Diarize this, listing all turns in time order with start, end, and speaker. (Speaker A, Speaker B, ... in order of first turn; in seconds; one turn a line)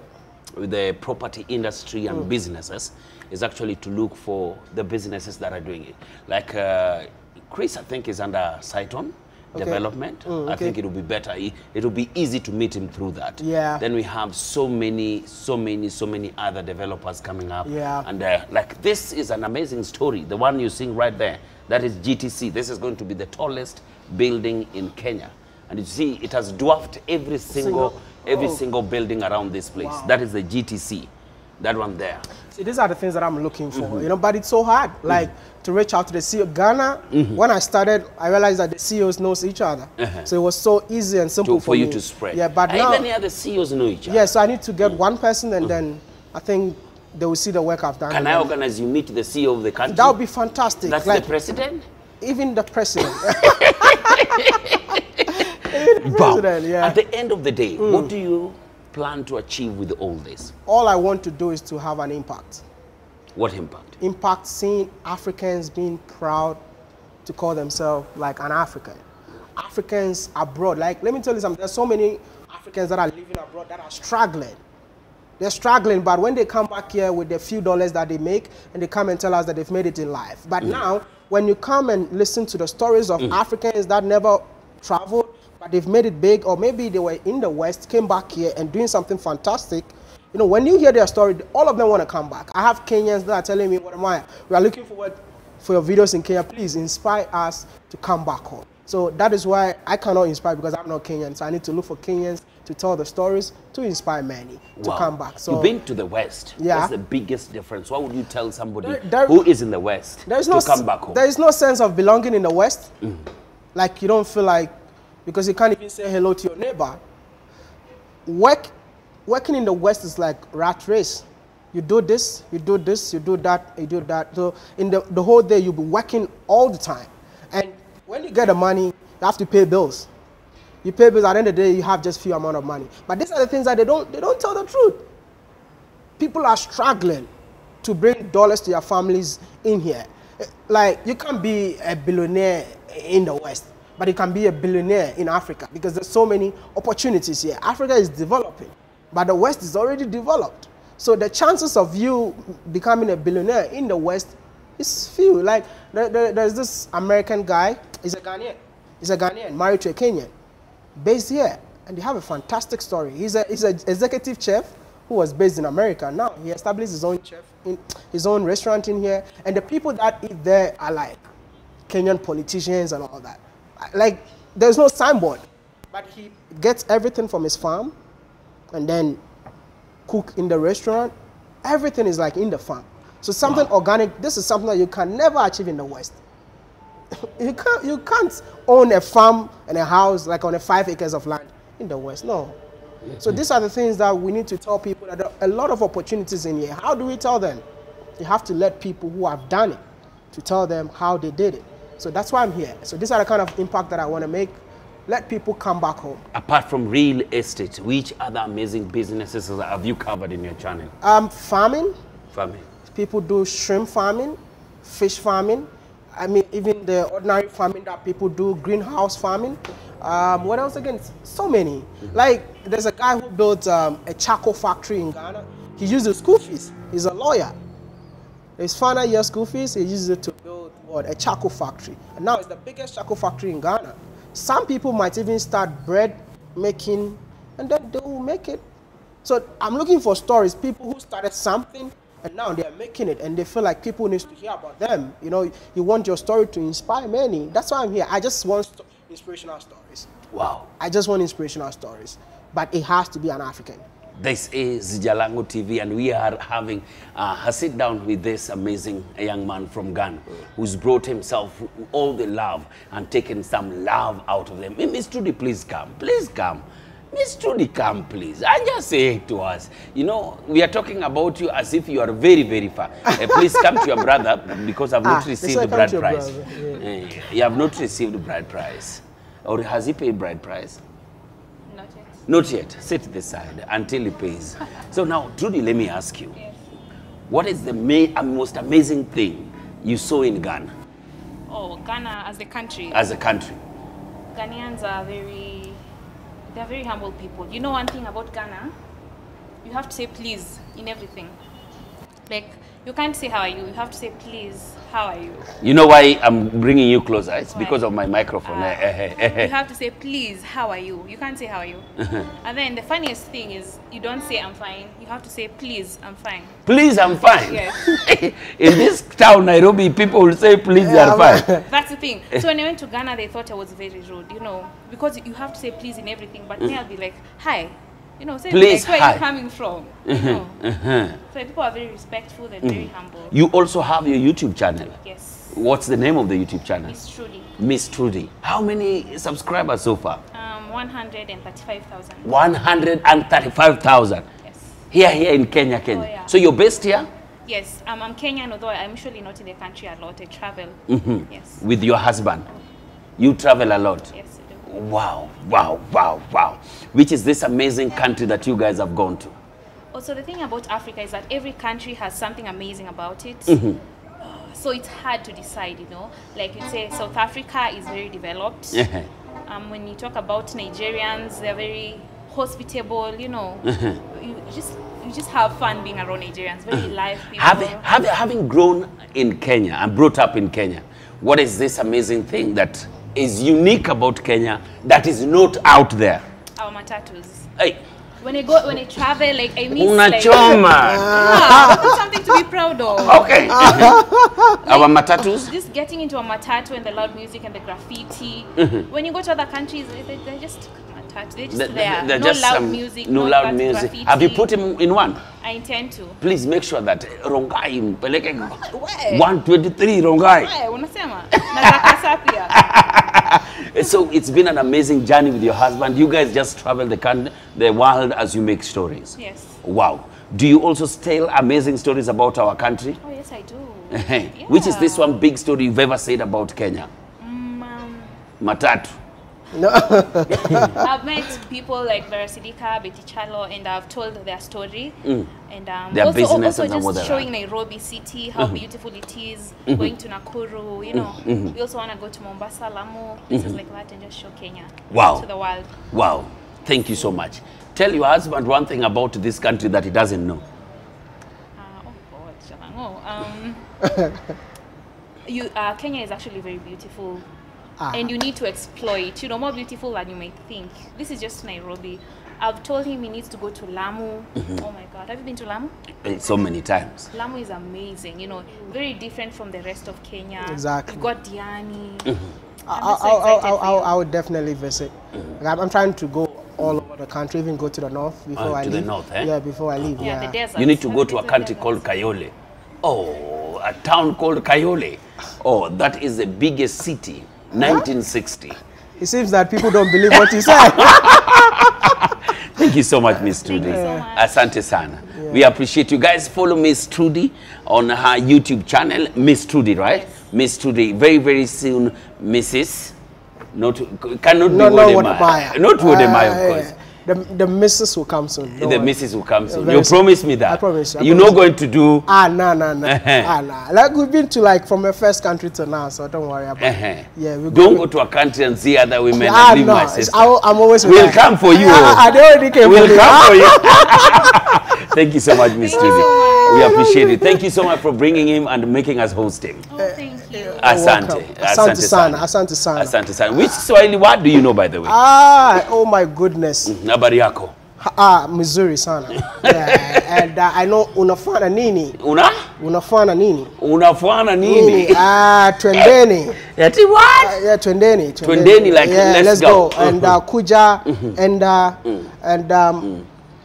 Speaker A: 0.5-31.1
Speaker B: 9.5-10.7
Speaker B: 13.4-13.8
Speaker B: 17.6-18.1
Speaker B: 27.5-28.6
Speaker B: 29.8-30.1
Speaker A: 31.6-32.3
Speaker B: 32.5-43.1
Speaker A: 33.7-34.1
Speaker A: 37.1-37.4
Speaker A: 40.0-40.2
Speaker A: 41.4-44.3
Speaker B: 44.1-48.5
Speaker A: 48.1-50.1
Speaker B: 49.9-51.3
Speaker A: 50.8-51.8
Speaker B: 52.2-54.5
Speaker A: 53.2-60.5
Speaker B: 55.3-57.0
Speaker B: 57.8-58.1
Speaker B: 60.6-62.6
Speaker A: 63.3-63.9
Speaker B: 64.0-66.6
Speaker B: 67.2-69.0
Speaker B: 69.5-74.6
Speaker B: 75.4-105.7
Speaker A: 104.8-111.2
Speaker B: 106.6-106.9
Speaker B: 108.8-109.4
Speaker B: 110.2-112.9
Speaker B: 113.7-114.7
Speaker B: 115.2-117.0
Speaker B: 118.2-118.7
Speaker B: 119.3-130.1
Speaker B: 130.8-135.0
Speaker B: 136.2-137.3
Speaker B: 137.8-160.3
Speaker B: 161.0-171.2
Speaker B: 171.9-177.9
Speaker B: 178.7-179.2
Speaker B: 180.1-181.1
Speaker B: 181.6-186.2
Speaker B: 187.2-192.6
Speaker A: 193.1-193.4
Speaker B: 193.2-197.6
Speaker B: 198.2-199.8
Speaker B: 200.3-206.2
Speaker A: 206.3-210.9
Speaker B: 211.0-211.9
Speaker A: 212.3-212.7
Speaker B: 212.9-227.5
Speaker B: 228.6-238.6
Speaker B: 239.2-250.1
Speaker A: 250.3-250.7
Speaker B: 250.8-253.8
Speaker A: 254.2-280.8
Speaker B: 273.3-273.6
Speaker B: 275.0-276.9
Speaker C: 281.7-282.2
Speaker A: 282.3-286.3
Speaker A: 287.3-290.7
Speaker C: 291.5-293.0
Speaker A: 292.9-293.6
Speaker C: 294.3-295.8
Speaker C: 296.5-298.7
Speaker C: 299.6-301.4
Speaker C: 302.3-305.5
Speaker A: 305.6-309.5
Speaker C: 307.5-307.8
Speaker C: 308.4-311.9
Speaker A: 312.0-312.3
Speaker C: 312.4-316.6
Speaker A: 316.6-321.5
Speaker C: 317.3-318.0
Speaker B: 320.8-321.6
Speaker C: 321.6-330.6
Speaker A: 328.5-329.2
Speaker A: 330.1-331.2
Speaker C: 331.2-333.3
Speaker A: 332.6-334.9
Speaker C: 335.0-335.6
Speaker A: 335.5-336.9
Speaker C: 336.8-337.5
Speaker A: 337.6-340.2
Speaker C: 340.3-342.3
Speaker A: 342.2-344.2
Speaker C: 344.4-344.8
Speaker A: 344.9-347.1
Speaker C: 345.9-346.3
Speaker C: 347.4-350.8
Speaker A: 350.9-352.5
Speaker C: 351.3-351.6
Speaker A: 353.2-354.1
Speaker C: 354.1-354.6
Speaker A: 354.6-359.3
Speaker C: 359.9-363.6
Speaker A: 363.5-363.8
Speaker C: 364.2-368.9
Speaker A: 368.7-369.1
Speaker C: 369.5-377.8
Speaker A: 373.6-374.0
Speaker A: 376.7-386.2
Speaker C: 386.6-387.5
Speaker C: 388.2-394.0
Speaker A: 389.7-391.7
Speaker B: 390.8-392.0
Speaker A: 392.9-394.0
Speaker B: 393.5-394.6
Speaker A: 394.6-395.5
Speaker C: 394.6-404.5
Speaker A: 398.6-398.9
Speaker A: 401.5-405.2
Speaker C: 405.4-406.2
Speaker A: 406.2-410.5
Speaker C: 408.6-409.3
Speaker C: 410.3-412.7
Speaker A: 411.4-412.0
Speaker A: 412.5-423.0
Speaker C: 419.2-419.6
Speaker C: 423.0-425.2
Speaker A: 423.9-426.9
Speaker C: 427.2-428.1
Speaker A: 428.4-428.9
Speaker B: 429.5-430.8
Speaker A: 430.3-430.7
Speaker C: 430.8-445.8
Speaker A: 435.0-435.3
Speaker A: 435.9-437.3
Speaker A: 440.9-441.5
Speaker A: 444.9-445.2
Speaker A: 445.9-450.4
Speaker C: 451.6-453.7
Speaker B: 453.8-454.1
Speaker C: 455.2-457.2
Speaker B: 457.8-458.1
Speaker C: 457.9-465.7
Speaker A: 466.0-467.1
Speaker C: 467.1-472.2
Speaker B: 470.4-471.1
Speaker B: 472.6-480.4
Speaker C: 472.7-473.9
Speaker A: 478.4-479.3
Speaker C: 480.0-481.8
Speaker A: 480.6-488.6
Speaker B: 487.5-487.8
Speaker B: 489.0-491.1
Speaker A: 490.1-502.9
Speaker C: 493.4-494.5
Speaker B: 493.5-494.1
Speaker B: 495.1-495.4
Speaker A: 503.5-506.7
Speaker B: 504.5-508.9
Speaker A: 508.6-512.1
Speaker B: 509.5-511.4
Speaker B: 512.1-517.8
Speaker A: 512.8-513.3
Speaker A: 516.6-520.3
Speaker B: 519.1-524.4
Speaker A: 520.8-522.1
Speaker C: 521.7-522.0
Speaker A: 522.6-529.6
Speaker C: 525.6-526.8
Speaker B: 525.7-527.4
Speaker C: 529.7-530.8
Speaker B: 529.8-533.6
Speaker A: 530.6-535.0
Speaker B: 534.8-536.7
Speaker A: 536.6-537.5
Speaker B: 537.8-542.0
Speaker A: 539.1-540.2
Speaker A: 542.0-542.5
Speaker B: 542.6-543.5
Speaker A: 543.6-545.0
Speaker B: 544.4-546.4
Speaker A: 545.7-547.4
Speaker B: 547.2-552.9
Speaker A: 548.2-550.2
Speaker A: 550.9-551.1